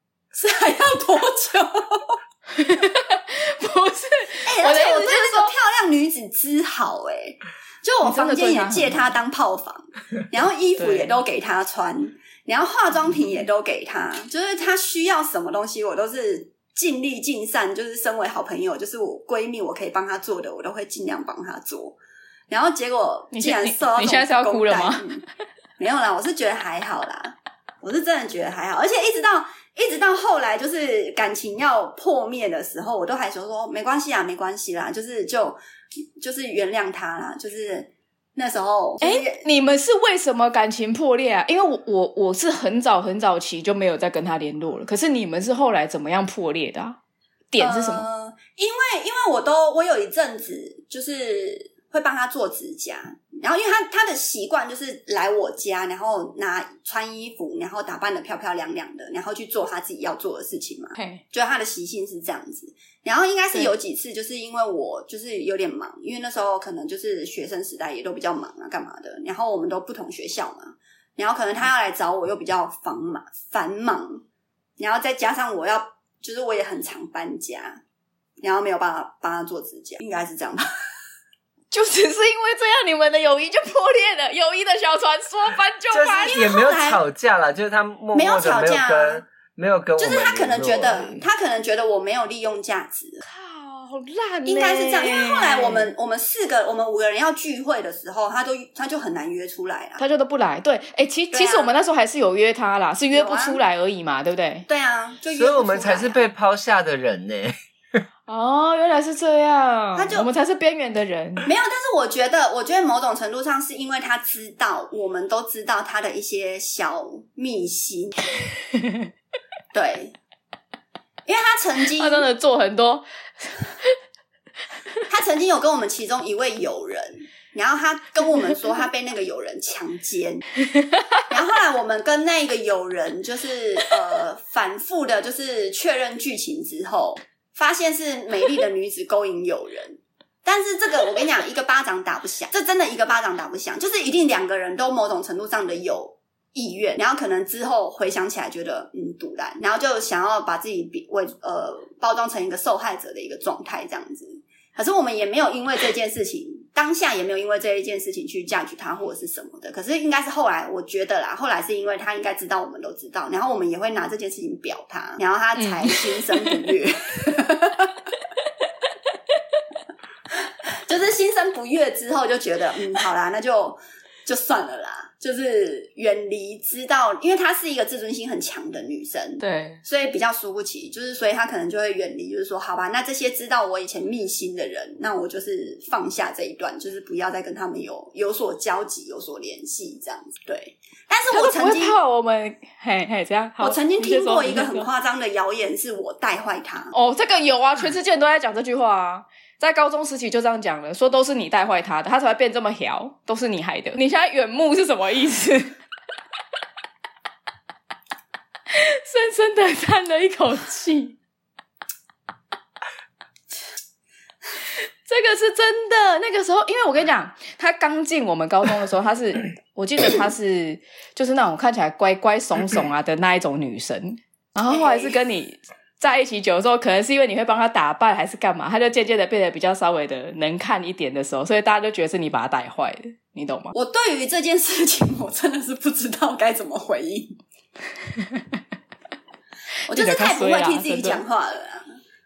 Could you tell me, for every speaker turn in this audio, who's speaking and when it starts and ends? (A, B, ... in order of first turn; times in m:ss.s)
0:00.3-0:02.2 A
0:02.5-0:05.5 B
0:04.4-0:22.0 A
0:08.0-0:09.0 B
0:10.8-0:11.2 B
0:22.5-0:25.2 A
0:23.3-0:25.0 B
0:25.8-0:35.6 A
0:36.2-0:39.4 A
0:39.0-0:47.0 B
0:47.5-0:48.0 B
0:47.6-1:14.2 A
1:01.0-1:01.2 B
1:14.8-1:17.8 A
1:18.4-1:20.6 A
1:21.7-1:26.4 B
1:25.9-1:31.2 C
1:26.3-1:27.0 A
1:28.1-1:29.2 A
1:30.0-1:33.2 A
1:33.2-1:35.9 B
1:34.4-1:40.0 A
1:40.0-1:44.6 B
1:41.3-1:41.7 A
1:43.1-1:43.6 A
1:44.7-1:46.2 A
1:45.3-1:48.0 C
1:48.3-1:51.4 B
1:49.9-1:50.3 A
1:51.4-1:58.3 A
1:58.7-1:59.0 B
1:59.7-2:00.1 A
2:01.2-2:02.3 A
2:02.0-2:03.6 B
2:05.1-2:10.4 A
2:10.7-2:11.2 B
2:11.3-2:47.9 A
2:45.6-2:46.6 B
2:50.8-3:11.9 A
2:59.4-2:59.8 B
3:11.3-3:14.9 B
3:13.6-3:16.9 A
3:16.9-3:25.8 B
3:28.7-3:31.2 B
3:35.0-3:53.7 B
3:44.7-3:45.2 A
3:53.7-3:57.4 A
3:58.2-3:58.4 B
3:59.9-4:01.9 A
3:59.9-4:01.2 B